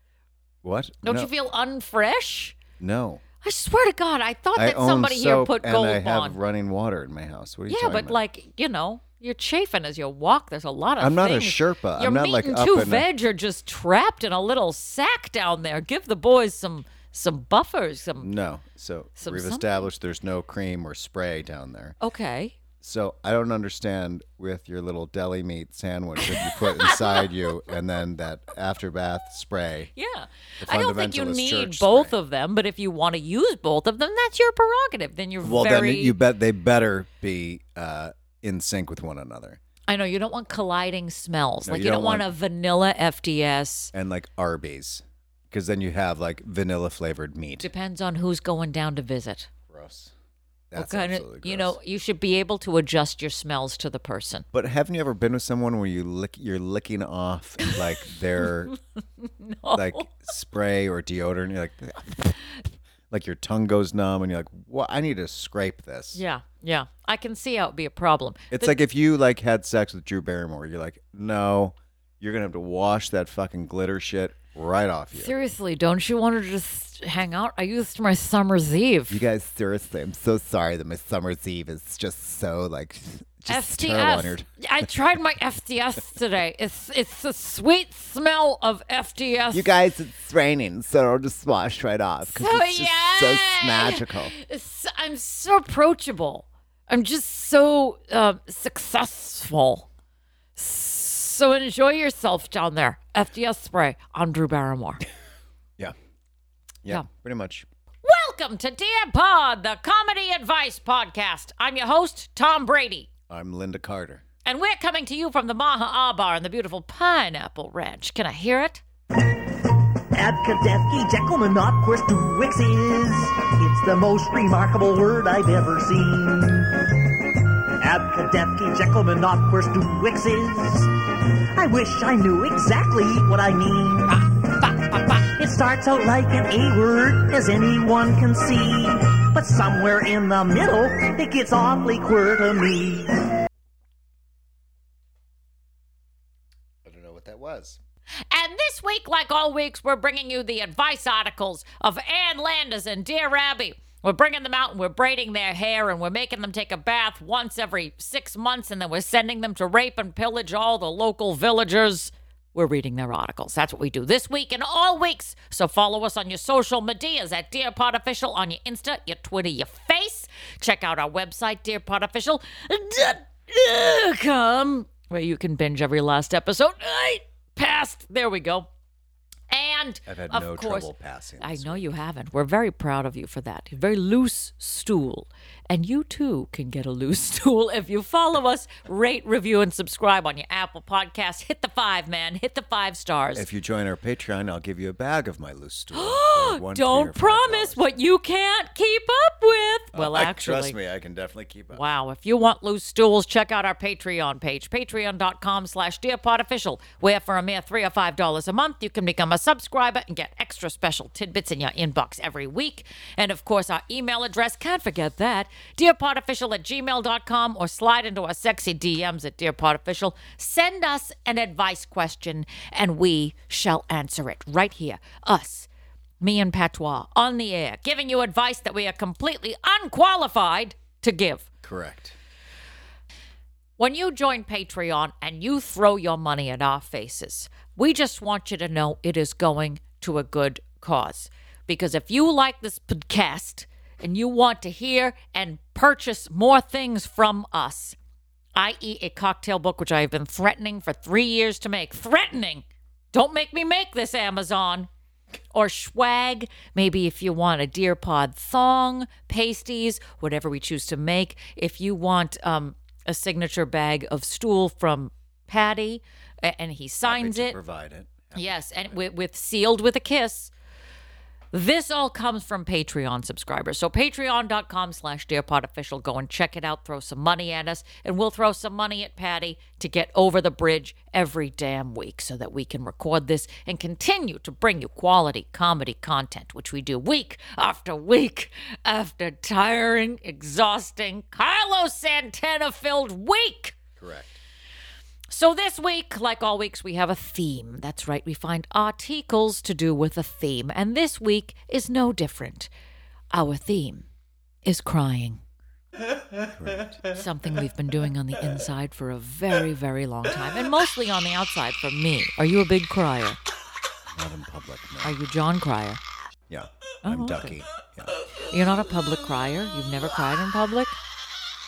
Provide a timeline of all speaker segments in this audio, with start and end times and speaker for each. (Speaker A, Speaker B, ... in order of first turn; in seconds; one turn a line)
Speaker A: 0.6-1.3
Speaker B: 1.0-2.5
Speaker A: 2.8-3.2
Speaker B: 3.4-6.4
Speaker A: 4.5-8.2
Speaker B: 7.7-18.3
Speaker A: 11.0-13.1
Speaker A: 18.2-22.0
Speaker B: 19.2-19.9
Speaker B: 22.0-22.5
Speaker A: 22.8-29.9
Speaker B: 26.2-27.5
Speaker B: 29.9-36.2
Speaker A: 30.6-32.1
Speaker A: 35.4-39.6
Speaker B: 39.9-43.9
Speaker A: 41.6-42.3
Speaker A: 43.9-47.7
Speaker B: 47.6-49.5
Speaker A: 49.7-50.1
Speaker A: 50.7-51.8
Speaker B: 50.7-54.5
Speaker A: 54.5-58.7
Speaker B: 58.4-60.1
Speaker A: 59.7-62.4
Speaker A: 63.1-66.2
Speaker B: 66.1-68.8
Speaker A: 68.5-75.3
Speaker B: 75.1-79.2
Speaker A: 79.1-84.5
Speaker B: 83.5-89.7
Speaker A: 89.5-94.3
Speaker B: 92.2-99.9
Speaker B: 100.5-105.0
Speaker A: 106.8-107.7
Speaker B: 108.0-113.1
Speaker A: 113.3-114.2
Speaker B: 114.4-118.8
Speaker C: 120.1-127.0
Speaker C: 127.8-130.9
Speaker C: 131.5-134.2
Speaker C: 134.9-143.2
Speaker A: 146.8-147.8
Speaker B: 148.3-178.7
Speaker B: 179.5-193.4
Speaker A: 180.1-181.9
Speaker A: 193.3-197.8
Speaker B: 195.9-200.8
Speaker A: 199.9-201.8
Speaker B: 201.7-225.7
Speaker B: 226.2-231.5
Speaker A: 231.6-232.2
Speaker B: 233.8-247.9
Speaker B: 248.6-254.9
Speaker B: 255.5-267.6
Speaker A: 267.0-269.0
Speaker B: 268.3-270.5
Speaker B: 271.5-293.7
Speaker A: 294.0-294.4
Speaker B: 295.3-302.7
Speaker B: 303.3-304.1
Speaker B: 304.6-305.4
Speaker A: 306.4-307.0
Speaker B: 307.0-313.4
Speaker A: 314.1-315.1
Speaker B: 315.0-316.0
Speaker A: 316.5-318.1
Speaker B: 317.0-317.6
Speaker B: 318.5-320.9